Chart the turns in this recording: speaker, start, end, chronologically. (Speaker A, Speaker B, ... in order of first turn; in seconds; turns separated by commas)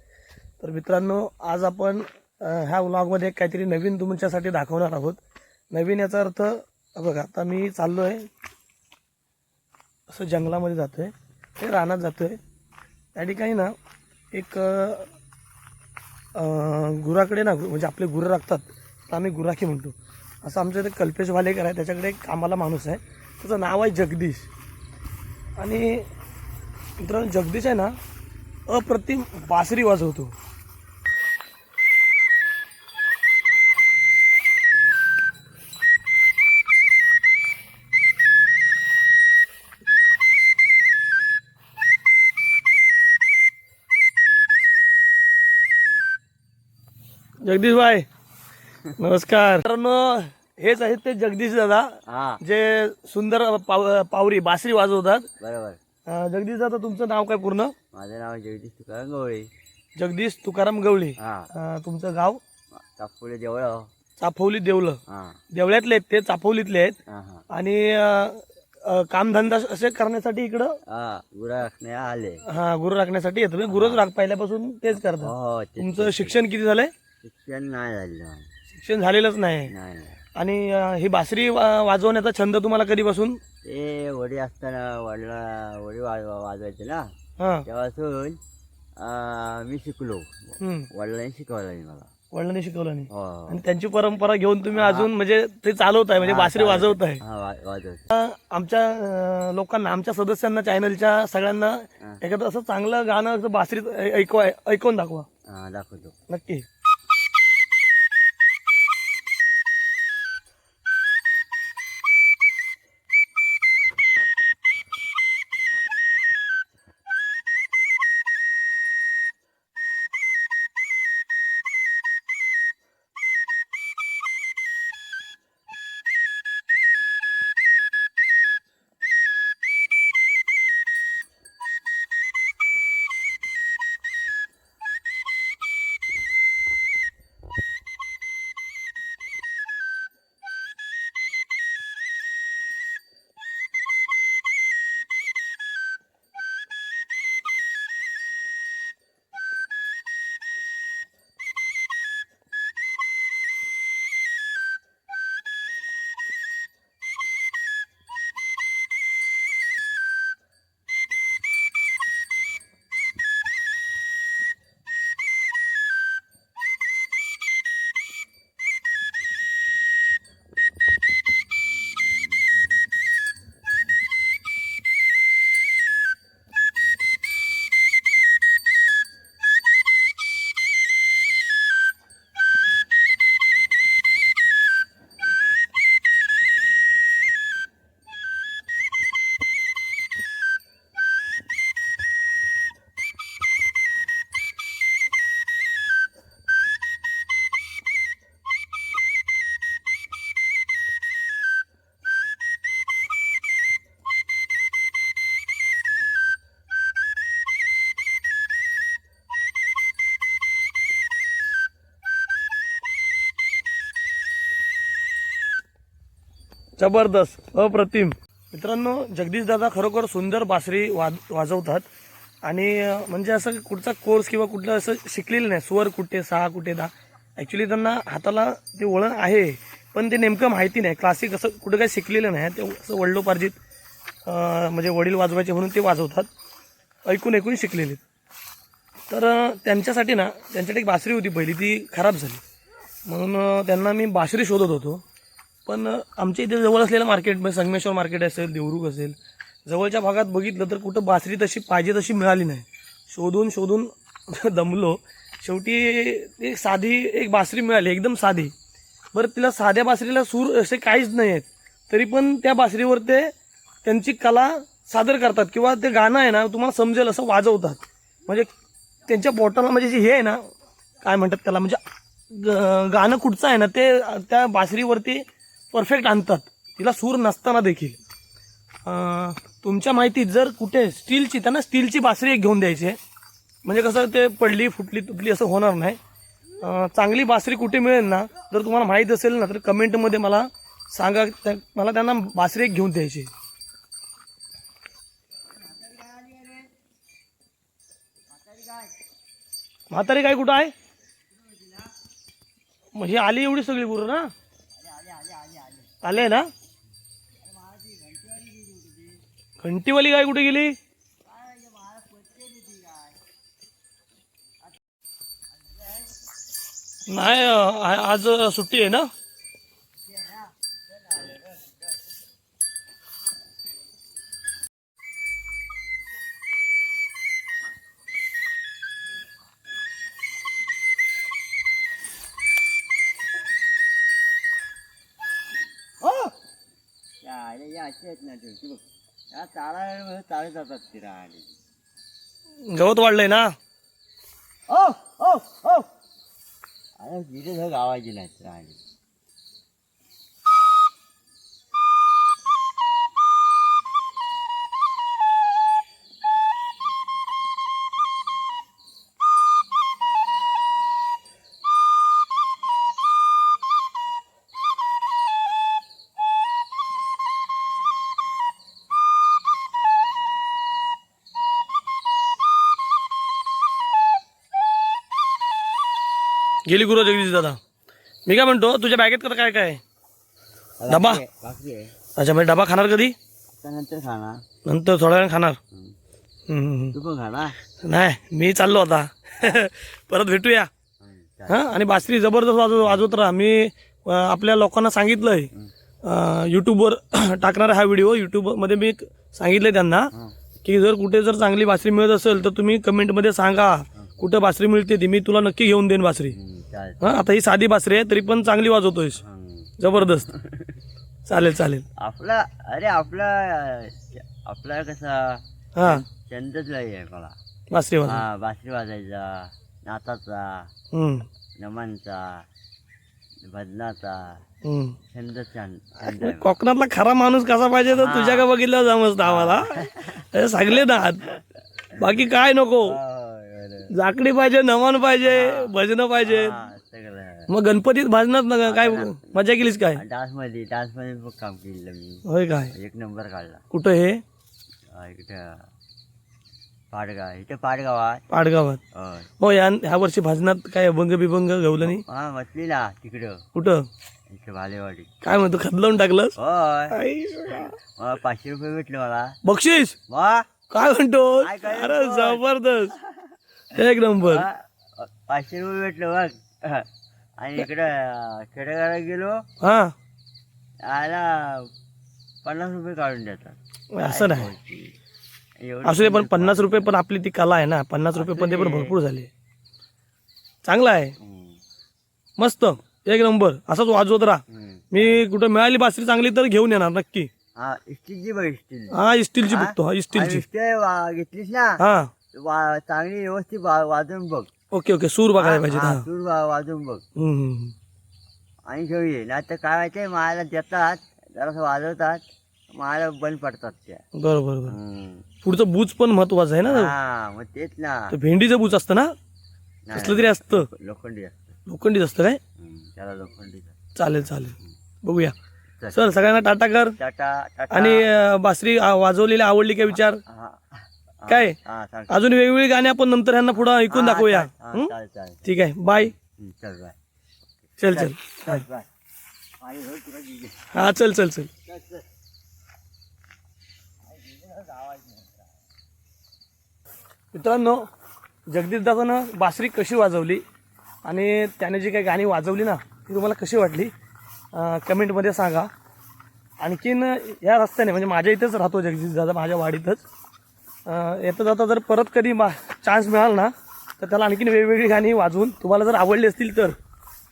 Speaker A: 0.6-5.2, Speaker A: 5.7-8.3, Speaker A: 10.1-12.4, Speaker A: 13.2-13.8, Speaker A: 14.3-15.1, Speaker A: 16.4-24.5, Speaker A: 25.6-26.1, Speaker A: 27.0-28.0, Speaker A: 28.7-30.4, Speaker A: 47.4-48.1, Speaker A: 49.0-55.3, Speaker B: 52.1-52.4, Speaker B: 55.4-55.8, Speaker A: 56.1-57.7, Speaker B: 57.9-59.5, Speaker A: 60.0-62.4, Speaker B: 61.2-61.5, Speaker B: 62.8-63.9, Speaker A: 64.2-65.0, Speaker B: 65.1-65.4, Speaker A: 65.5-67.0, Speaker B: 67.1-67.4, Speaker A: 67.5-70.8, Speaker B: 70.9-72.4, Speaker A: 72.5-76.9, Speaker B: 73.7-74.0, Speaker B: 75.2-76.4, Speaker B: 77.2-78.5, Speaker A: 78.7-79.7, Speaker B: 79.7-80.2, Speaker A: 80.4-83.4, Speaker B: 83.6-87.1, Speaker A: 87.4-87.7, Speaker B: 87.7-88.4, Speaker B: 89.0-92.1, Speaker A: 90.6-90.9, Speaker A: 92.3-97.2, Speaker B: 93.1-93.6, Speaker B: 94.8-95.1, Speaker B: 96.2-98.1, Speaker A: 98.1-105.3, Speaker B: 105.5-106.2, Speaker A: 106.3-106.7, Speaker A: 216.8-221.9, Speaker A: 222.4-233.6, Speaker A: 234.2-236.3, Speaker A: 237.1-238.0, Speaker A: 239.1-242.4, Speaker A: 243.1-245.0, Speaker A: 245.7-258.5, Speaker A: 259.1-263.3, Speaker A: 263.9-268.5, Speaker A: 269.1-270.5, Speaker A: 271.0-278.0, Speaker A: 278.9-283.0, Speaker A: 283.6-286.0, Speaker A: 286.6-293.3, Speaker B: 295.6-296.7, Speaker B: 298.3-298.9, Speaker A: 299.9-300.7, Speaker B: 301.3-301.9, Speaker A: 302.9-304.3, Speaker B: 304.7-305.9, Speaker A: 306.0-306.5, Speaker B: 307.4-309.2, Speaker A: 309.6-310.8, Speaker B: 311.2-313.2, Speaker A: 317.1-319.1, Speaker B: 320.1-321.6, Speaker B: 337.2-341.5, Speaker A: 342.6-343.6, Speaker B: 344.7-345.9, Speaker B: 347.0-348.8, Speaker A: 376.7-377.6, Speaker A: 378.3-379.8, Speaker B: 380.8-381.9, Speaker A: 380.9-381.2, Speaker A: 382.2-383.1, Speaker B: 383.5-384.4, Speaker A: 384.6-385.6, Speaker A: 386.5-387.0, Speaker B: 386.9-387.6, Speaker A: 387.8-390.7, Speaker B: 391.0-391.7, Speaker A: 391.5-395.5, Speaker A: 396.0-400.1, Speaker A: 400.6-406.4, Speaker B: 406.3-407.0, Speaker A: 407.0-409.2, Speaker B: 409.2-409.7, Speaker A: 409.8-410.3, Speaker B: 410.3-410.7, Speaker A: 411.3-411.9, Speaker B: 412.0-417.4, Speaker A: 415.8-416.0, Speaker A: 417.7-418.2, Speaker B: 418.1-420.7, Speaker A: 420.9-421.3, Speaker B: 421.6-422.5, Speaker B: 423.5-424.4, Speaker A: 424.6-425.0, Speaker B: 425.1-426.5, Speaker A: 426.0-431.4, Speaker B: 427.9-428.5, Speaker B: 429.2-430.2, Speaker A: 432.0-433.0, Speaker B: 432.9-433.9, Speaker A: 433.9-436.6, Speaker B: 435.3-435.7, Speaker B: 436.3-437.5, Speaker A: 437.5-440.0, Speaker B: 438.7-439.4, Speaker B: 440.0-443.6, Speaker A: 442.3-442.7, Speaker A: 443.7-444.2, Speaker B: 444.9-445.7, Speaker B: 446.9-448.2, Speaker A: 448.3-448.8, Speaker B: 448.9-449.3, Speaker A: 449.4-452.0, Speaker B: 451.9-453.4, Speaker A: 453.6-453.9, Speaker B: 454.3-455.1, Speaker A: 455.2-456.4, Speaker B: 456.4-457.0, Speaker A: 456.9-457.8, Speaker B: 458.0-459.4, Speaker A: 459.4-460.0, Speaker B: 460.1-460.5, Speaker A: 460.7-463.0, Speaker B: 461.4-462.4, Speaker A: 463.7-464.5, Speaker B: 464.2-466.9, Speaker B: 467.4-469.4, Speaker A: 469.6-469.9, Speaker B: 470.8-471.7, Speaker B: 472.4-475.0, Speaker A: 473.9-474.5, Speaker B: 475.6-476.9, Speaker A: 475.8-479.3, Speaker B: 478.1-479.0, Speaker A: 480.6-481.1, Speaker B: 481.2-481.6, Speaker A: 482.4-487.3, Speaker B: 484.5-485.2, Speaker B: 487.6-491.8, Speaker A: 488.9-490.4, Speaker A: 491.8-492.1, Speaker B: 492.3-494.5, Speaker A: 494.7-496.1, Speaker B: 495.4-497.0, Speaker A: 497.2-497.7, Speaker B: 498.7-504.0, Speaker A: 504.1-504.8, Speaker B: 504.7-505.3, Speaker A: 505.4-506.9, Speaker B: 506.7-508.1, Speaker A: 508.1-509.1, Speaker B: 509.9-511.5, Speaker A: 509.9-510.7, Speaker A: 511.7-512.4, Speaker B: 512.6-513.8, Speaker A: 514.0-515.4, Speaker A: 515.9-517.0, Speaker B: 517.0-518.1, Speaker A: 517.7-520.2, Speaker B: 520.3-522.3, Speaker A: 521.3-521.6, Speaker A: 522.1-524.9, Speaker B: 523.9-525.5, Speaker A: 525.5-526.1, Speaker B: 526.2-527.0, Speaker A: 527.8-528.6, Speaker B: 527.8-528.9, Speaker B: 529.6-530.6, Speaker A: 530.7-531.5, Speaker B: 531.7-532.0, Speaker B: 534.1-535.4, Speaker A: 537.3-537.9, Speaker A: 538.5-540.4, Speaker A: 541.0-543.9, Speaker A: 544.5-545.7, Speaker A: 546.6-550.0, Speaker A: 550.9-556.8